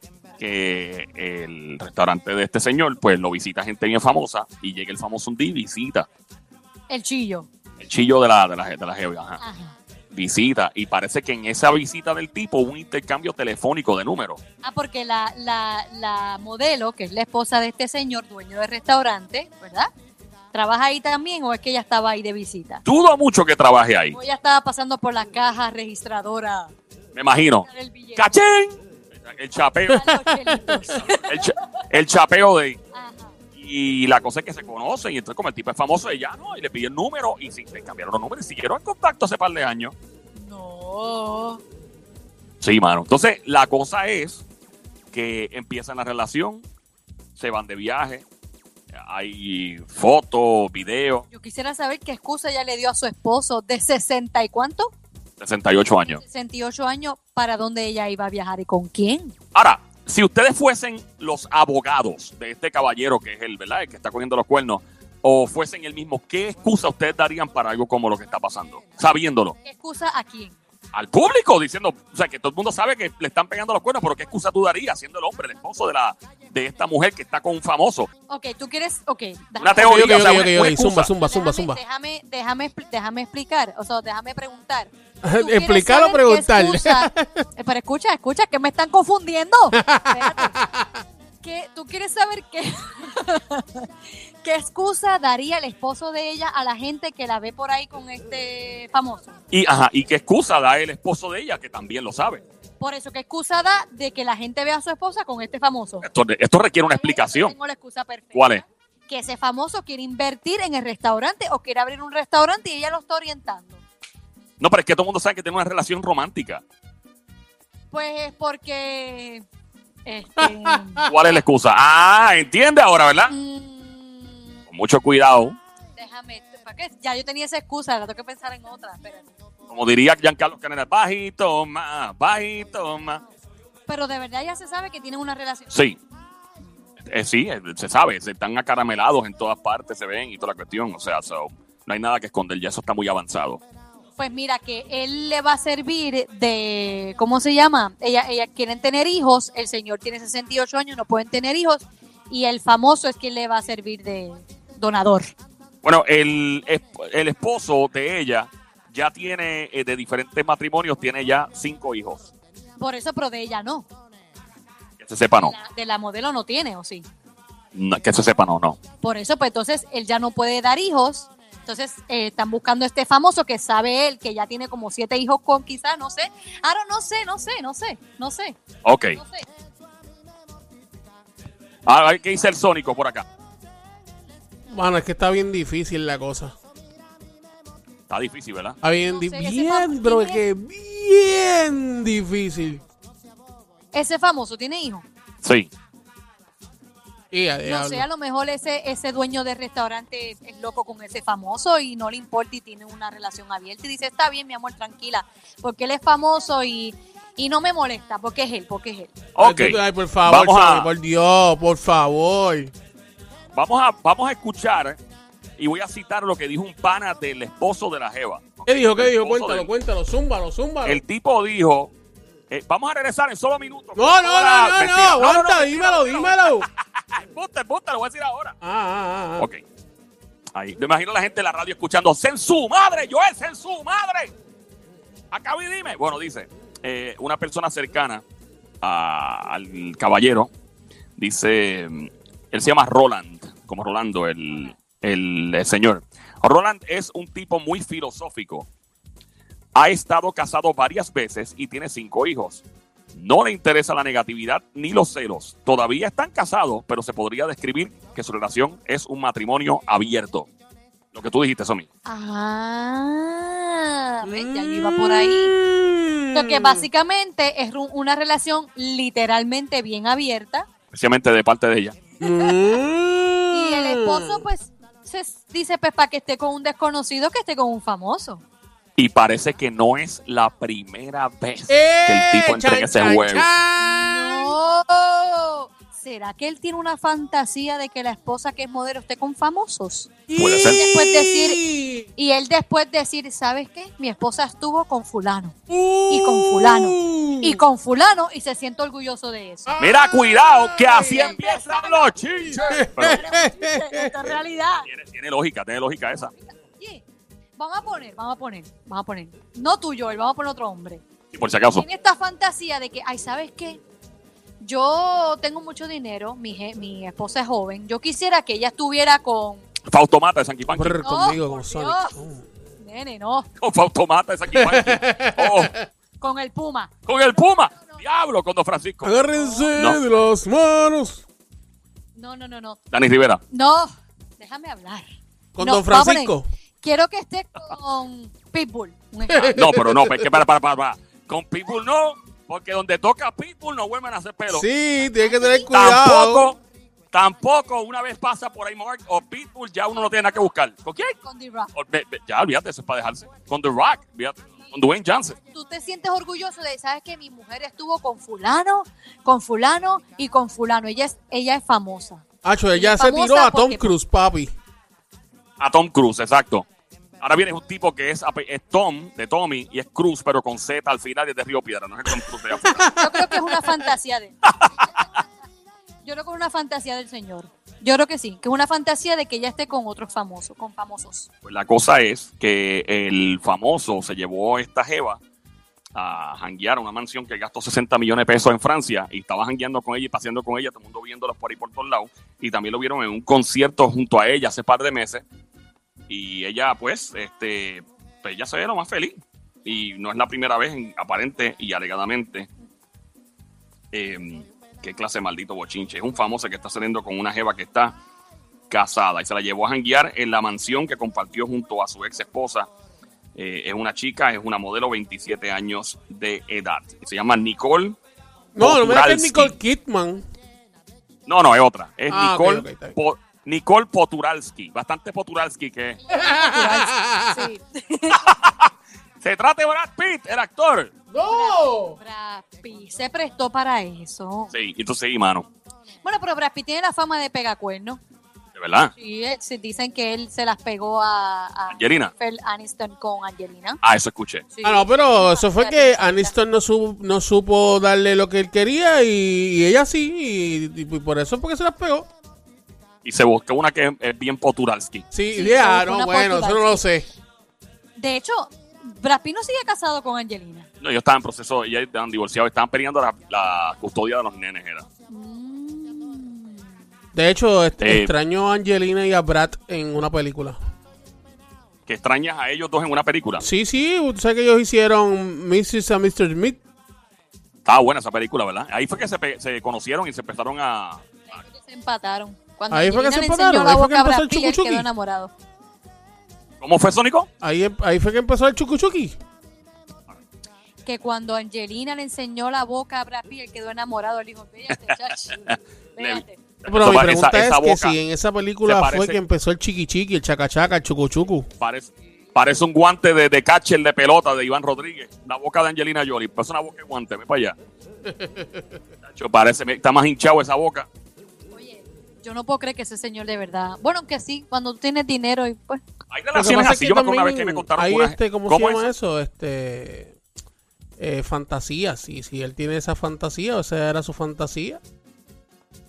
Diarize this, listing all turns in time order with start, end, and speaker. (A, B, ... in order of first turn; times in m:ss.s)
0:00.4-0:06.1 A
0:06.9-0:07.5 B
0:07.8-0:09.4 A
0:09.4-0:09.8 B
0:10.1-0:14.4 A
0:14.6-0:19.9 B
0:20.5-0:22.8 B
0:22.8-0:24.2 A
0:24.1-0:26.7 B
0:27.1-0:30.0 A
0:27.6-0:28.2 B
0:29.9-0:31.0 C
0:29.9-0:31.6 B
0:31.2-0:32.8 A
0:32.9-0:33.3 B
0:33.5-0:39.9 A
0:40.4-0:41.6 B
0:42.6-0:44.4 A
0:45.1-0:46.6 A
0:47.3-0:48.2 A
0:48.9-0:51.2 A
0:51.3-0:54.9 B
0:55.4-0:56.2 A
0:56.1-0:59.3 B
0:59.5-1:09.6 A
1:09.6-1:10.6 B
1:10.9-1:18.1 A
1:18.3-1:30.6 B
1:19.6-1:21.1 A
1:19.8-1:21.8 C
1:25.2-1:27.4 C
1:29.7-1:30.9 C
1:31.4-1:33.9 B
1:34.4-1:39.4 B
1:39.5-1:42.4 A
1:42.8-1:46.1 B
1:46.0-1:47.5 A
1:46.9-1:53.8 B
1:48.3-1:48.6 A
1:54.6-1:56.6 A
1:57.9-1:59.4 B
2:00.0-2:01.1 B
2:00.4-2:01.1 C
2:01.1-2:03.3 A
2:03.3-2:04.6 B
2:04.7-2:05.6 A
2:06.0-2:09.3 B
2:09.7-2:13.2 A
2:13.9-2:15.7 B
2:15.7-2:16.0 A
2:17.1-2:23.6 A
2:24.2-2:35.3 B
2:35.8-2:42.3 A
2:42.8-2:43.8 B
2:45.0-2:45.5 A
2:45.4-2:47.1 B
2:47.7-2:48.8 A
2:49.0-2:58.6 B
2:58.8-2:59.2 A
2:59.1-2:59.4 B
3:01.8-3:03.2 A
3:04.7-3:06.5 C
3:08.1-3:08.8 A
3:08.8-3:12.8 C
3:09.1-3:10.4 B
3:13.9-3:15.0 B
3:15.4-3:15.7 A
3:17.3-3:18.1 C
3:17.6-3:29.1 B
3:29.3-3:30.9 A
3:29.4-3:32.7 C
3:33.5-3:35.0 A
3:35.6-3:39.7 A
3:38.7-3:41.0 C
3:40.8-3:41.9 A
3:42.5-3:48.5 A
3:44.0-3:46.6 C
3:48.6-3:49.5 C
3:50.5-3:54.3 A
3:55.3-3:58.2 A
3:58.8-4:00.5 A
4:01.2-4:08.7 A
4:09.7-4:12.6 A
4:13.1-4:20.5 A
4:21.1-4:21.9 A
4:22.0-4:25.6 B
4:24.2-4:26.9 C
4:26.3-4:30.7 B
4:30.9-4:32.0 A
4:32.2-4:34.4 C
4:32.2-4:32.8 B
4:33.5-4:38.4 B
4:39.0-4:43.5 A
4:41.7-4:44.6 C
4:43.8-4:50.1 B
4:50.3-4:52.1 C
4:50.4-4:50.8 A
4:50.7-4:51.6 B
4:52.2-4:55.6 B
4:55.7-4:57.6 C
4:56.1-4:59.7 B
4:59.7-5:01.4 C
4:59.8-5:03.2 A
5:01.0-5:04.9 B
5:02.5-5:04.3 C
5:04.8-5:06.3 A
5:06.4-5:07.0 B
5:07.6-5:11.0 B
5:11.3-5:11.8 A
5:11.7-5:13.8 B
5:14.6-5:19.6 B
5:19.9-5:21.0 A
5:20.6-5:22.4 C
5:21.0-5:22.2 B
5:22.8-5:23.5 B
5:23.6-5:25.7 A
5:24.5-5:25.9 C
5:26.2-5:28.0 B
5:27.1-5:29.2 A
5:29.0-5:31.2 C
5:29.3-5:29.7 B
5:29.7-5:30.0 A
5:32.2-5:32.8 B
5:32.9-5:33.4 A
5:33.5-5:35.1 B
5:35.5-5:36.5 C
5:35.6-5:39.7 B
5:39.3-5:40.2 C
5:39.5-5:44.6 A
5:44.5-5:46.5 C
5:45.0-5:45.7 B
5:45.7-5:46.6 A
5:47.1-5:51.1 A
5:51.2-5:51.7 B
5:51.7-5:55.4 A
5:55.5-6:02.2 B
6:02.4-6:04.5 C
6:02.7-6:03.9 B
6:05.6-6:06.7 A
6:07.2-6:12.8 A
6:12.6-6:13.7 C
6:12.7-6:15.3 B
6:16.0-6:21.3 B
6:21.4-6:25.2 A
6:25.9-6:35.2 A
6:36.1-6:42.5 A
6:43.9-6:47.9 A
6:48.7-6:52.7 A
6:53.3-6:58.0 A
6:58.5-7:00.2 C
6:58.6-6:59.5 A
7:01.3-7:06.0 A
7:02.1-7:03.0 C
7:06.1-7:08.3 B
7:06.1-7:07.5 C
7:08.1-7:08.7 A
7:09.2-7:10.9 A
7:11.1-7:12.0 C
7:11.2-7:14.5 B
7:14.5-7:15.5 A
7:16.0-7:18.0 B
7:18.5-7:18.9 A
7:18.9-7:23.8 B
7:21.7-7:22.1 A
7:23.8-7:24.4 A
7:24.5-7:26.3 B
7:24.6-7:32.1 C
7:33.0-7:35.0 A
7:35.1-7:37.1 C
7:35.3-7:36.8 B
7:38.0-7:40.7 B
7:40.8-7:44.8 A
7:45.1-7:46.6 B
7:47.1-7:50.6 C
7:47.8-7:48.1 A
7:51.9-7:53.4 A
7:53.4-7:56.6 C
7:57.6-8:01.0 A
8:01.3-8:05.3 B
8:02.7-8:04.9 C
8:06.6-8:07.3 A
8:07.4-8:09.2 C
8:10.8-8:15.4 B
8:15.3-8:18.0 A
8:16.0-8:16.4 B
8:16.7-8:21.5 C
8:18.6-8:19.2 A
8:21.6-8:27.6 A
8:28.0-8:28.8 C
8:29.1-8:30.9 A
8:31.5-8:35.8 B
8:36.1-8:38.9 A
8:36.3-8:40.2 C
8:41.0-8:44.8 C